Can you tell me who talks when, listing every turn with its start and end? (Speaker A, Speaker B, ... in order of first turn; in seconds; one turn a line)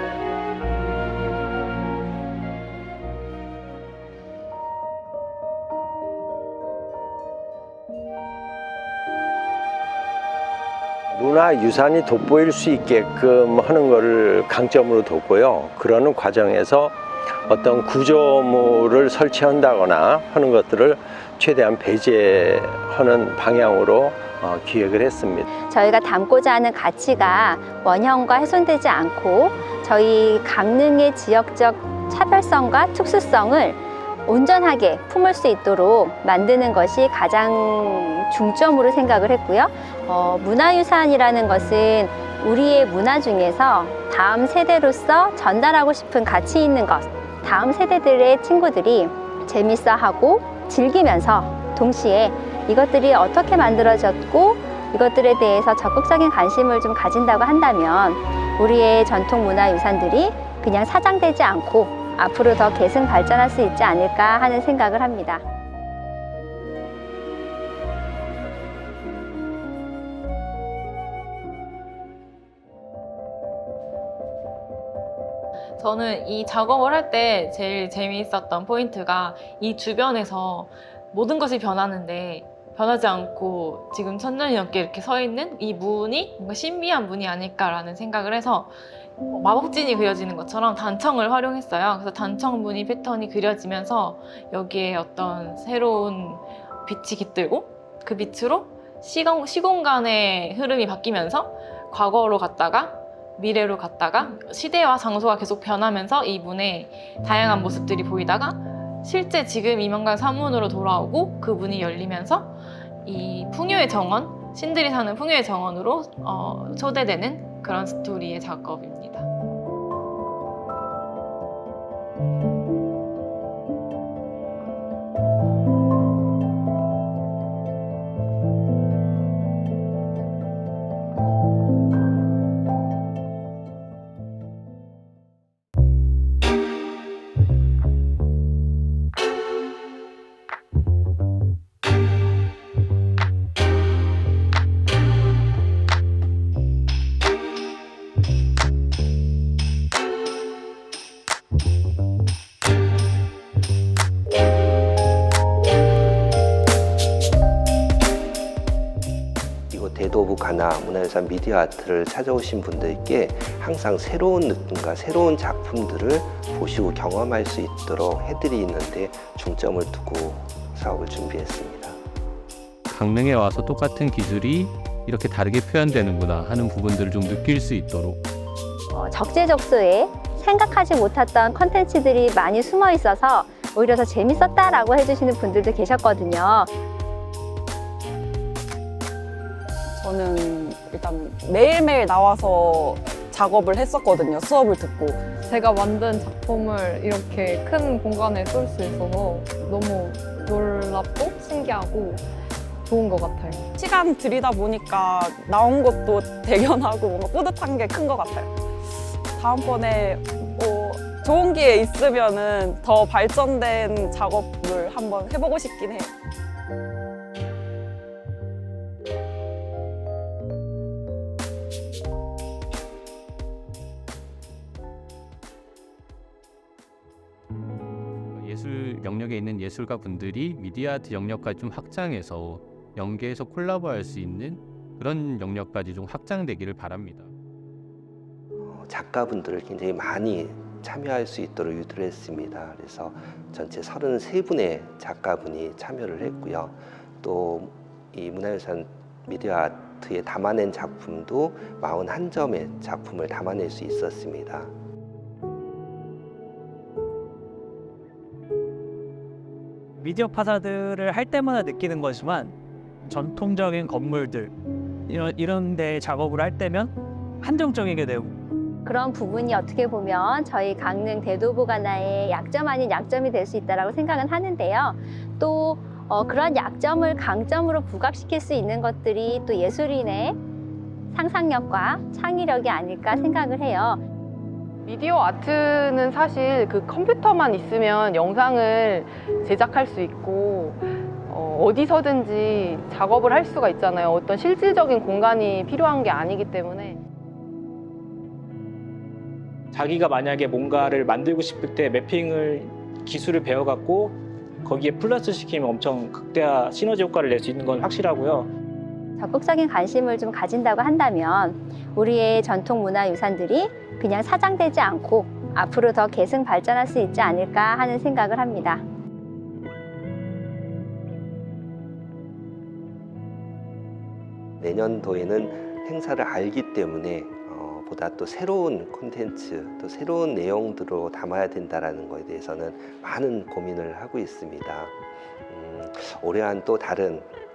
Speaker A: 11.1-25.5
Speaker B: 25.7-65.4
Speaker C: 75.8-88.8
Speaker C: 89.3-119.3
Speaker D: 159.7-172.0
Speaker E: 172.9-178.2
Speaker B: 178.9-186.7
Speaker F: 190.0-195.2
Speaker G: 195.3-202.2
Speaker G: 202.9-203.7
Speaker F: 203.8-208.5
Speaker F: 209.3-216.1
Speaker E: 228.3-237.3
Speaker D: 238.6-254.7
Speaker H: 260.0-264.6
Speaker H: 265.1-268.3
Speaker B: 268.9-280.4
Speaker B: 281.1-284.0
Speaker I: 284.9-297.0
Speaker J: 299.8-302.6
Speaker J: 303.2-304.1
Speaker J: 304.7-308.4
Speaker B: 309.2-318.8
Speaker D: 324.6-334.9
Speaker D: 335.5-337.3